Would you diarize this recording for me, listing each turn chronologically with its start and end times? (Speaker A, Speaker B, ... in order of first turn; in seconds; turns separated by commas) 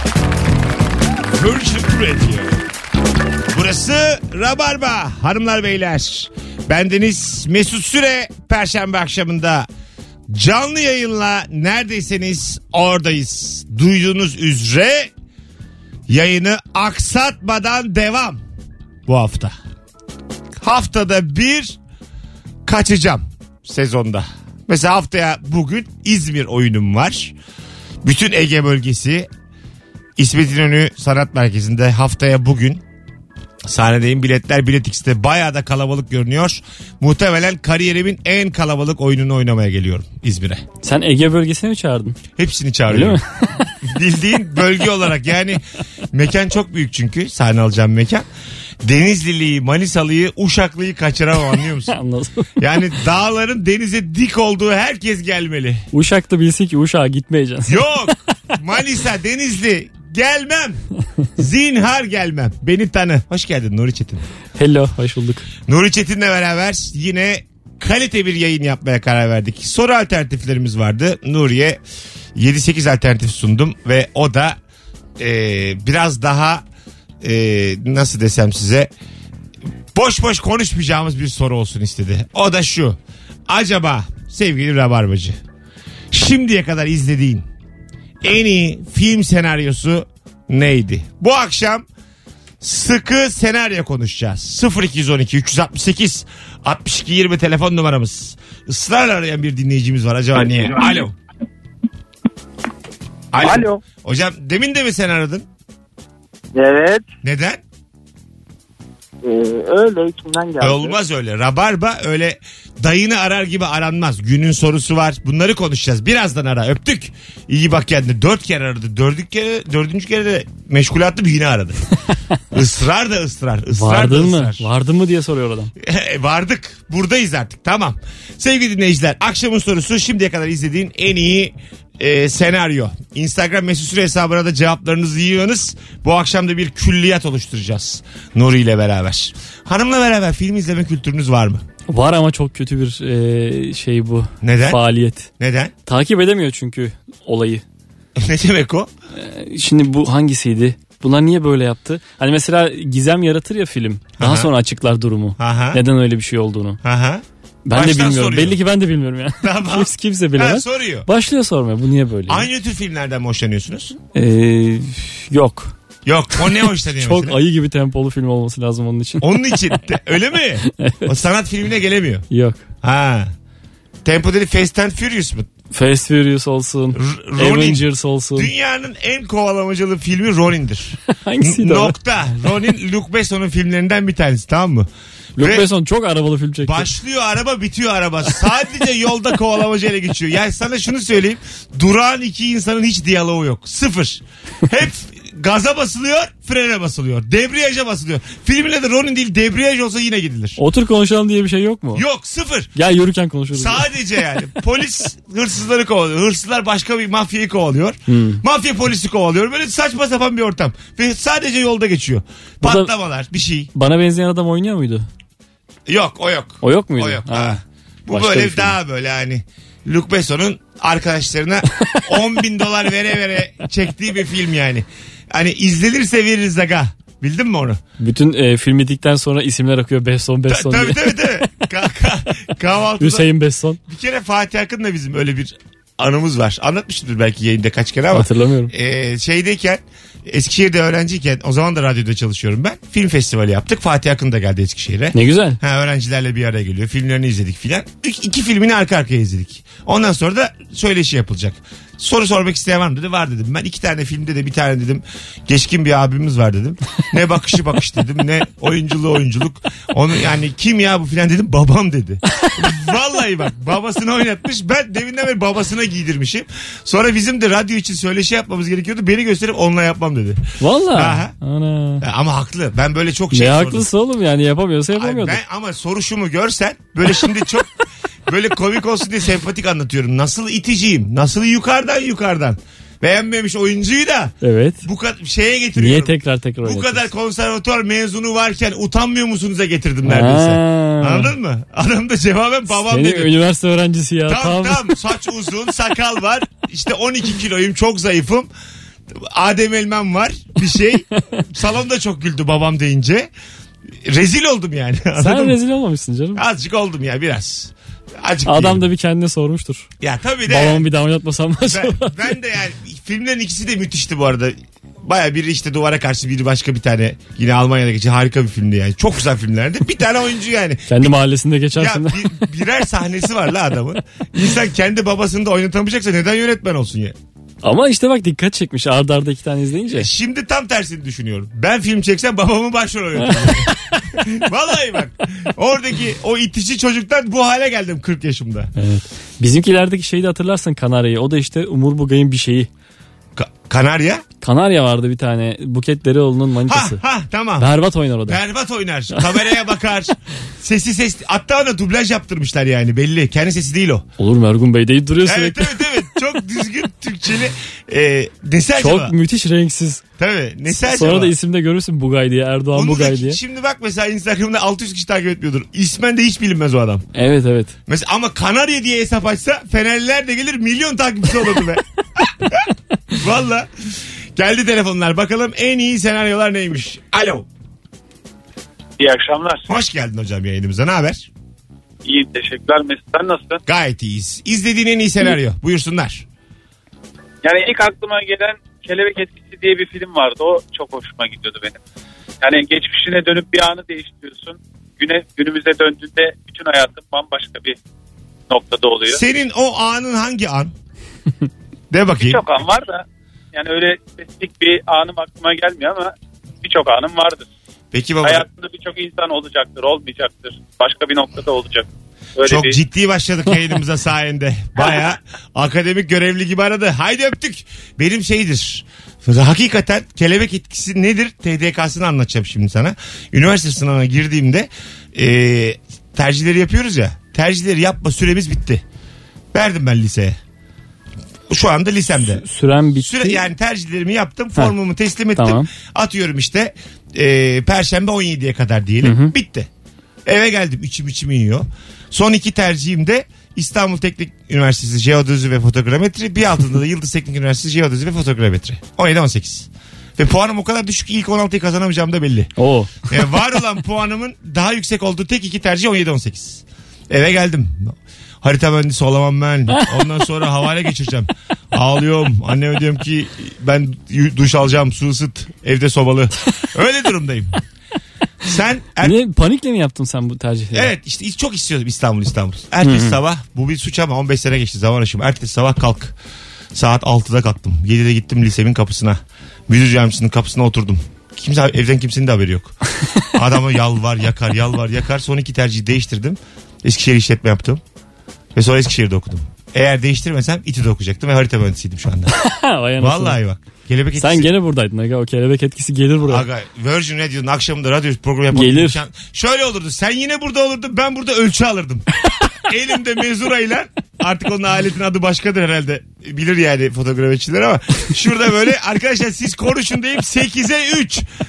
Speaker A: 1.3-2.6, Speaker A: 3.5-9.7, Speaker A: 10.3-15.1, Speaker A: 16.1-18.4, Speaker A: 19.1-19.6, Speaker A: 20.6-21.8, Speaker A: 22.7-27.3, Speaker A: 28.0-29.3, Speaker A: 30.2-32.8, Speaker A: 33.6-40.6, Speaker B: 40.8-42.2, Speaker A: 42.4-43.2, Speaker B: 42.9-43.2, Speaker A: 43.8-45.6, Speaker A: 46.1-48.3, Speaker A: 48.8-52.0, Speaker B: 51.9-52.5, Speaker A: 52.6-55.9, Speaker B: 55.9-58.1, Speaker A: 57.7-60.8, Speaker A: 61.4-64.3, Speaker B: 64.6-65.5, Speaker A: 65.7-71.8, Speaker A: 72.3-74.6, Speaker A: 75.2-76.6, Speaker A: 77.2-78.9, Speaker A: 79.9-85.4, Speaker A: 86.1-87.5, Speaker A: 88.2-91.9, Speaker A: 92.6-101.1, Speaker A: 103.3-105.5, Speaker C: 103.4-103.8, Speaker C: 106.5-107.0, Speaker A: 107.2-107.6, Speaker C: 109.2-111.0, Speaker A: 110.6-121.8, Speaker A: 122.5-124.7, Speaker B: 123.7-125.7, Speaker A: 125.8-141.6, Speaker B: 141.9-145.3, Speaker A: 144.4-144.8, Speaker A: 145.4-145.7, Speaker B: 145.9-147.6, Speaker A: 148.2-148.9, Speaker B: 149.1-156.8, Speaker A: 154.2-154.5, Speaker A: 155.4-155.8, Speaker A: 156.8-158.6, Speaker B: 157.7-162.5, Speaker A: 159.4-161.1, Speaker A: 162.3-164.0, Speaker B: 164.1-165.7, Speaker A: 166.1-167.4, Speaker B: 166.4-169.8, Speaker A: 169.2-172.3, Speaker B: 170.8-171.1, Speaker B: 172.3-172.6, Speaker A: 172.8-173.3, Speaker A: 174.0-175.5, Speaker B: 175.7-178.5, Speaker A: 176.9-185.7, Speaker B: 181.1-181.9, Speaker B: 185.4-186.9, Speaker A: 186.7-200.6, Speaker B: 200.6-202.0, Speaker A: 201.9-202.7, Speaker B: 202.8-203.9, Speaker A: 203.5-213.7, Speaker B: 208.1-208.4, Speaker B: 212.6-212.9, Speaker B: 213.7-215.1, Speaker A: 215.9-227.8, Speaker B: 216.6-218.8, Speaker B: 228.0-231.2, Speaker A: 230.5-233.3, Speaker B: 233.0-233.8, Speaker A: 233.9-271.4, Speaker B: 238.1-238.7, Speaker B: 245.1-245.6, Speaker B: 270.6-272.0, Speaker A: 272.0-273.9, Speaker B: 273.3-275.4, Speaker A: 275.0-277.7, Speaker A: 278.3-293.3, Speaker B: 284.4-284.8, Speaker B: 285.8-287.1, Speaker B: 290.1-291.3, Speaker B: 292.8-294.9, Speaker A: 294.3-298.5, Speaker A: 299.1-303.3, Speaker A: 304.0-305.6, Speaker B: 305.2-306.4, Speaker A: 306.4-308.9, Speaker B: 308.5-309.9, Speaker A: 310.0-310.9, Speaker B: 310.5-312.2, Speaker A: 311.6-321.1, Speaker B: 320.9-322.3, Speaker A: 321.8-327.1, Speaker B: 327.6-330.1, Speaker A: 329.9-338.7, Speaker B: 333.3-333.7, Speaker B: 338.8-342.7, Speaker A: 343.4-344.2, Speaker B: 344.4-347.0, Speaker A: 346.7-347.7, Speaker B: 347.6-348.4, Speaker A: 348.3-354.1, Speaker B: 349.1-349.4, Speaker B: 354.2-355.8, Speaker A: 355.3-359.1, Speaker B: 358.8-360.0, Speaker A: 360.2-361.3, Speaker B: 360.8-363.4, Speaker A: 362.7-367.1, Speaker B: 367.1-367.7, Speaker A: 367.9-377.5, Speaker D: 379.0-379.7, Speaker A: 379.7-381.3, Speaker D: 382.0-383.6, Speaker A: 383.7-386.2, Speaker D: 387.4-391.8, Speaker D: 392.4-397.8, Speaker D: 398.5-399.2, Speaker A: 399.1-400.7, Speaker A: 401.9-402.4, Speaker D: 402.2-407.4, Speaker A: 407.9-408.5, Speaker D: 408.2-412.8, Speaker A: 412.4-428.8, Speaker A: 429.5-430.4, Speaker A: 431.5-432.4, Speaker B: 432.2-433.5, Speaker A: 433.0-439.7, Speaker B: 435.4-435.7, Speaker B: 439.0-439.3, Speaker A: 440.3-452.5, Speaker B: 452.6-453.2, Speaker A: 453.1-467.6, Speaker B: 459.7-460.0, Speaker A: 468.4-469.2, Speaker B: 469.0-470.9, Speaker A: 470.7-476.1, Speaker B: 472.8-473.2, Speaker A: 476.7-482.8, Speaker A: 483.3-487.8, Speaker A: 488.6-492.3, Speaker B: 492.4-493.4, Speaker A: 493.0-494.5, Speaker B: 494.2-496.5, Speaker A: 496.3-502.1, Speaker B: 498.5-499.0, Speaker A: 502.6-511.2